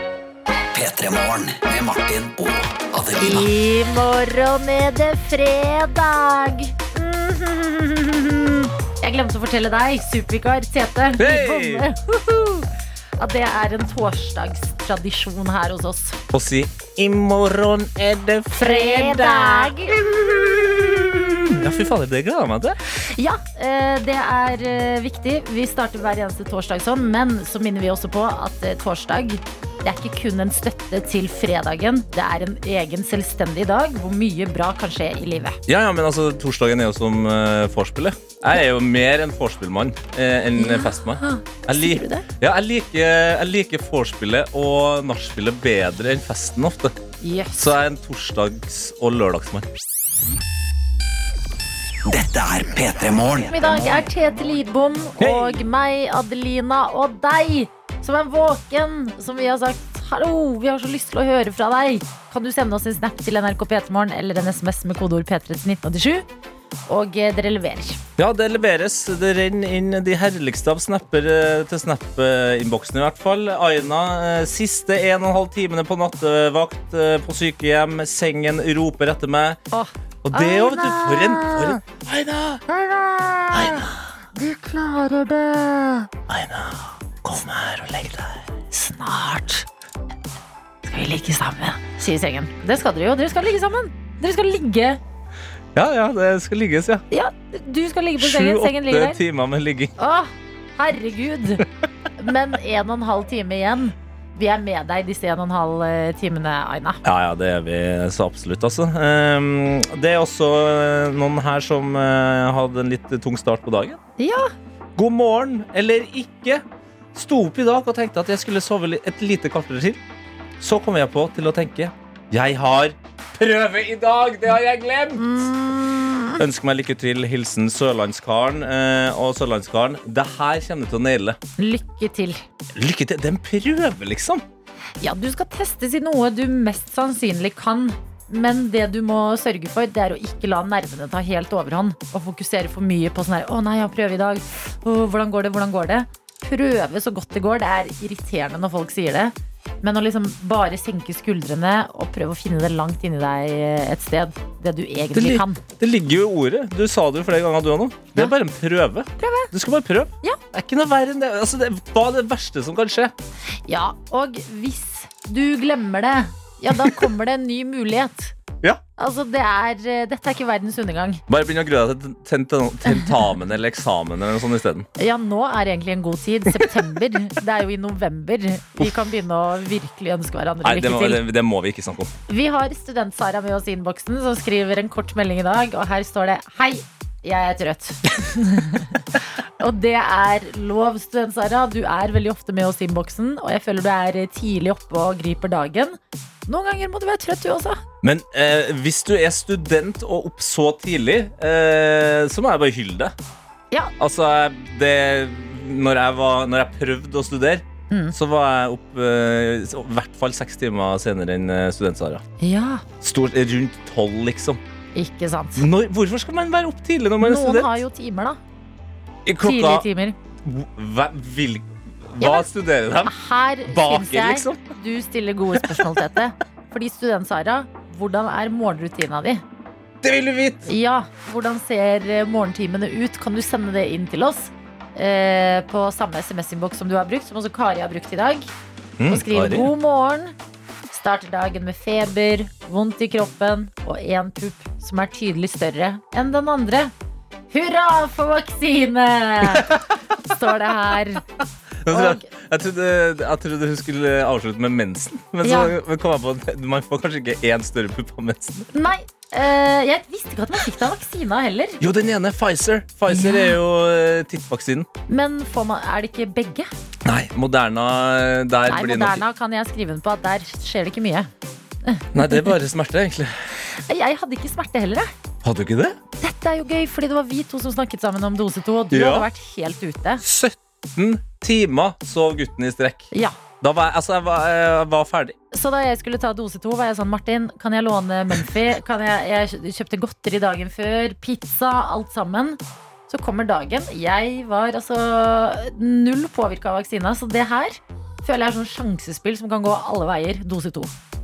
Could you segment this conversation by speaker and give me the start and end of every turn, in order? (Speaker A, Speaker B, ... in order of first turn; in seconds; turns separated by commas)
Speaker A: 0.7-3.5, Speaker B: 3.2-16.2, Speaker C: 11.2-11.9, Speaker C: 16.3-22.8, Speaker B: 18.6-20.0, Speaker B: 23.1-35.6, Speaker C: 35.7-46.9, Speaker B: 40.5-42.2, Speaker B: 47.2-47.7, Speaker C: 47.5-49.7, Speaker A: 52.1-54.0, Speaker B: 53.5-66.2, Speaker C: 55.2-55.6, Speaker B: 66.9-68.0, Speaker C: 68.2-79.6, Speaker B: 79.7-81.8, Speaker C: 80.2-82.6, Speaker B: 82.7-86.1, Speaker C: 83.5-84.0, Speaker C: 86.3-88.5, Speaker B: 88.7-89.7, Speaker B: 90.8-95.0, Speaker C: 95.7-97.0, Speaker B: 97.1-99.2, Speaker C: 98.2-99.9, Speaker B: 100.0-101.6, Speaker B: 102.2-107.0, Speaker C: 107.0-114.0, Speaker B: 114.2-114.5, Speaker C: 115.0-116.6, Speaker C: 117.1-120.0, Speaker C: 120.6-125.4, Speaker B: 125.2-126.4, Speaker C: 126.4-131.4, Speaker B: 131.6-132.4, Speaker C: 132.7-134.4, Speaker B: 135.0-155.6, Speaker C: 155.1-163.1, Speaker B: 159.2-159.5, Speaker B: 163.7-168.3, Speaker B: 169.0-171.2, Speaker C: 171.3-174.9, Speaker B: 175.0-181.2, Speaker C: 180.6-182.1, Speaker B: 182.3-189.0, Speaker B: 189.6-197.8, Speaker C: 198.0-203.1, Speaker C: 204.0-212.2, Speaker B: 207.9-208.2, Speaker B: 212.4-212.8, Speaker C: 213.0-214.6, Speaker B: 214.9-215.7, Speaker C: 215.6-217.8, Speaker B: 217.2-218.4, Speaker C: 219.2-219.8, Speaker B: 219.4-220.2, Speaker C: 220.4-223.1, Speaker B: 222.2-222.5, Speaker B: 223.0-229.4, Speaker C: 223.7-224.7, Speaker C: 225.6-226.1, Speaker C: 230.0-230.7, Speaker B: 230.7-238.5, Speaker C: 239.0-239.7, Speaker B: 239.1-240.3, Speaker B: 240.9-246.9, Speaker B: 247.5-249.7, Speaker C: 249.5-249.8, Speaker B: 250.3-251.2, Speaker C: 251.8-258.7, Speaker B: 251.9-252.3, Speaker B: 255.4-255.7, Speaker B: 258.7-261.8, Speaker C: 261.8-264.9, Speaker B: 263.1-263.6, Speaker B: 265.1-266.7, Speaker C: 267.0-269.2, Speaker B: 268.7-271.3, Speaker B: 271.8-272.5, Speaker C: 272.1-273.5, Speaker B: 273.8-275.1, Speaker C: 275.4-276.0, Speaker B: 276.2-280.2, Speaker C: 278.9-279.3, Speaker C: 280.2-283.1, Speaker C: 283.6-285.4, Speaker B: 285.5-292.6, Speaker B: 293.1-300.9